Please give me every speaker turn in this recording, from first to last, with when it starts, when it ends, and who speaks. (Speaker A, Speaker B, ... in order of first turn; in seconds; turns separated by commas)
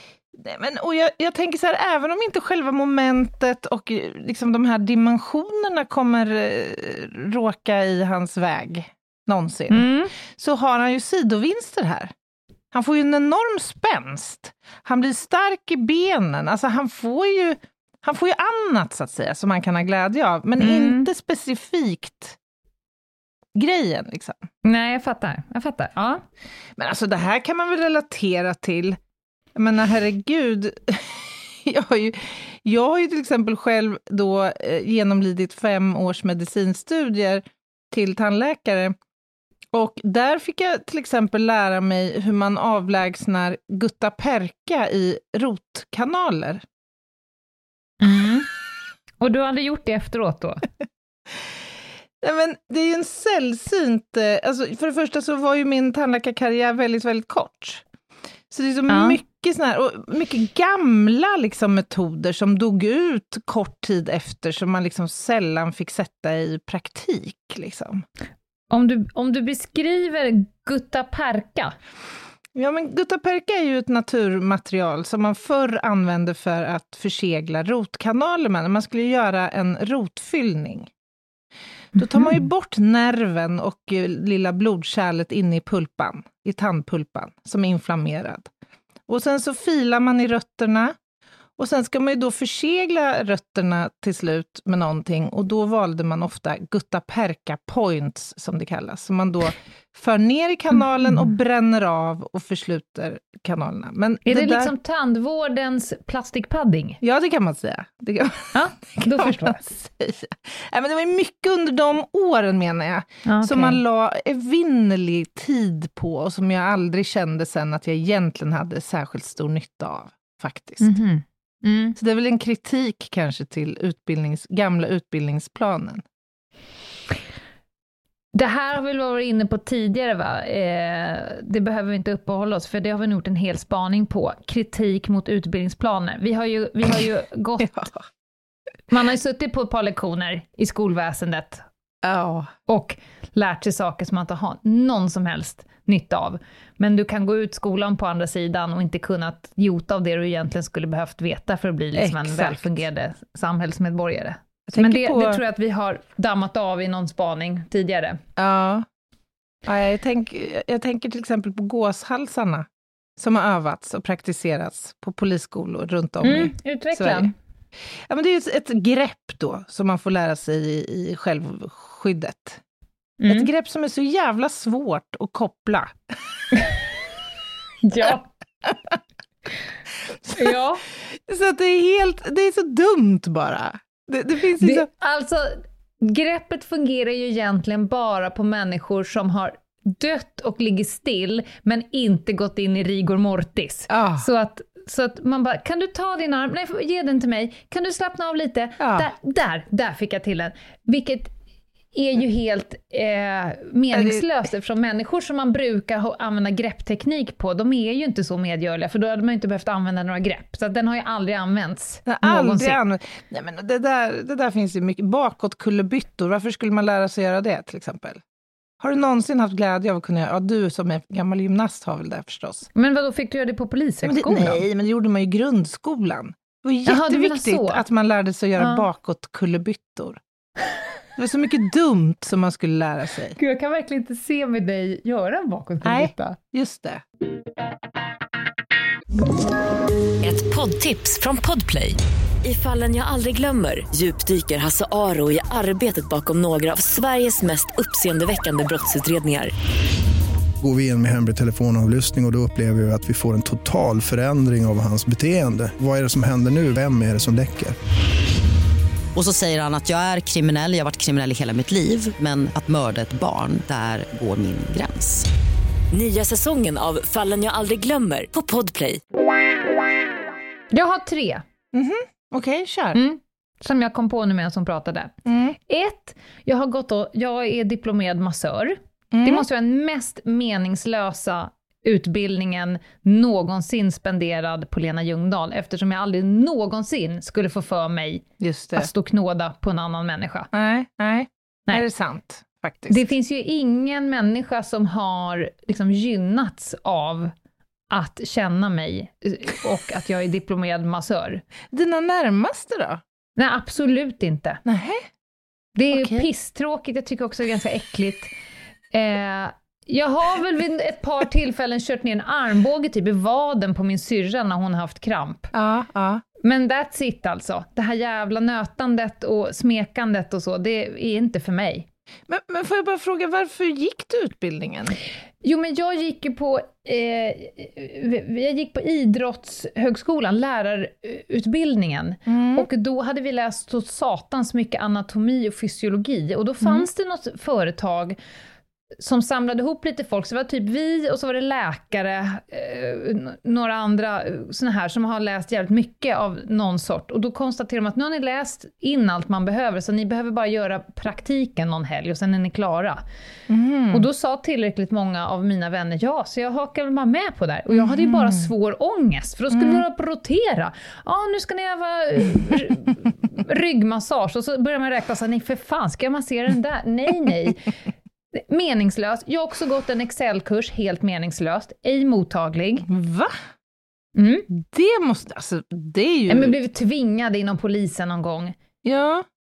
Speaker A: 0.4-12.1, Speaker B: 9.7-10.1, Speaker A: 12.7-22.4, Speaker B: 20.6-21.1, Speaker A: 23.6-24.4, Speaker B: 24.6-26.2, Speaker A: 26.8-29.0, Speaker A: 29.6-39.0, Speaker A: 39.7-46.6, Speaker B: 48.0-48.5, Speaker B: 49.2-50.6, Speaker A: 52.2-57.8, Speaker A: 58.5-68.1, Speaker B: 58.9-59.2, Speaker B: 68.7-71.8, Speaker A: 72.5-80.9, Speaker A: 81.9-88.5, Speaker A: 89.1-91.0, Speaker A: 91.6-104.7, Speaker B: 104.3-107.0, Speaker A: 107.0-120.9, Speaker B: 108.5-109.6, Speaker B: 113.2-113.8, Speaker B: 120.8-122.0, Speaker A: 122.0-126.0, Speaker B: 128.3-137.8, Speaker A: 137.6-138.0, Speaker B: 138.9-141.7, Speaker A: 142.0-142.5, Speaker B: 142.7-158.2, Speaker A: 151.9-152.8, Speaker A: 154.7-155.4, Speaker A: 158.4-158.9, Speaker A: 159.7-167.3, Speaker B: 166.2-167.3, Speaker A: 168.1-172.6, Speaker B: 173.2-173.5, Speaker A: 173.3-176.0, Speaker B: 176.5-176.8, Speaker B: 177.8-178.3, Speaker A: 178.7-178.9, Speaker A: 180.2-184.9, Speaker B: 180.4-180.8, Speaker B: 184.6-201.3, Speaker A: 193.9-194.3, Speaker A: 198.8-199.1, Speaker B: 201.9-212.8, Speaker A: 203.9-204.2, Speaker A: 212.1-218.2, Speaker A: 218.8-222.7, Speaker B: 222.8-224.6, Speaker A: 224.0-230.2, Speaker B: 226.9-227.8, Speaker B: 228.6-228.9, Speaker A: 231.2-233.4, Speaker B: 233.4-236.4, Speaker A: 235.8-237.0, Speaker C: 240.2-249.5, Speaker D: 250.6-257.8, Speaker E: 259.1-265.2, Speaker C: 265.9-269.0, Speaker B: 270.7-271.4, Speaker A: 271.7-273.0, Speaker B: 272.9-275.1, Speaker A: 275.3-275.6, Speaker B: 275.7-290.5, Speaker A: 279.1-279.5, Speaker A: 288.4-288.9, Speaker A: 290.5-293.1, Speaker B: 292.9-297.3, Speaker B: 297.9-301.4, Speaker A: 301.7-303.0, Speaker B: 303.4-304.6, Speaker A: 304.6-305.1, Speaker B: 305.8-308.3, Speaker A: 305.9-306.3, Speaker B: 308.9-315.5, Speaker A: 315.5-316.2, Speaker B: 316.4-321.9, Speaker A: 322.3-325.0, Speaker B: 325.4-338.2, Speaker A: 332.3-332.7, Speaker A: 336.6-336.9, Speaker B: 339.0-353.0, Speaker A: 353.5-354.1, Speaker B: 353.9-367.7, Speaker A: 357.7-358.5, Speaker A: 359.5-359.8, Speaker B: 368.4-372.9, Speaker A: 372.9-373.4, Speaker B: 374.1-374.5, Speaker A: 374.5-376.6, Speaker B: 376.3-378.6, Speaker A: 378.8-379.3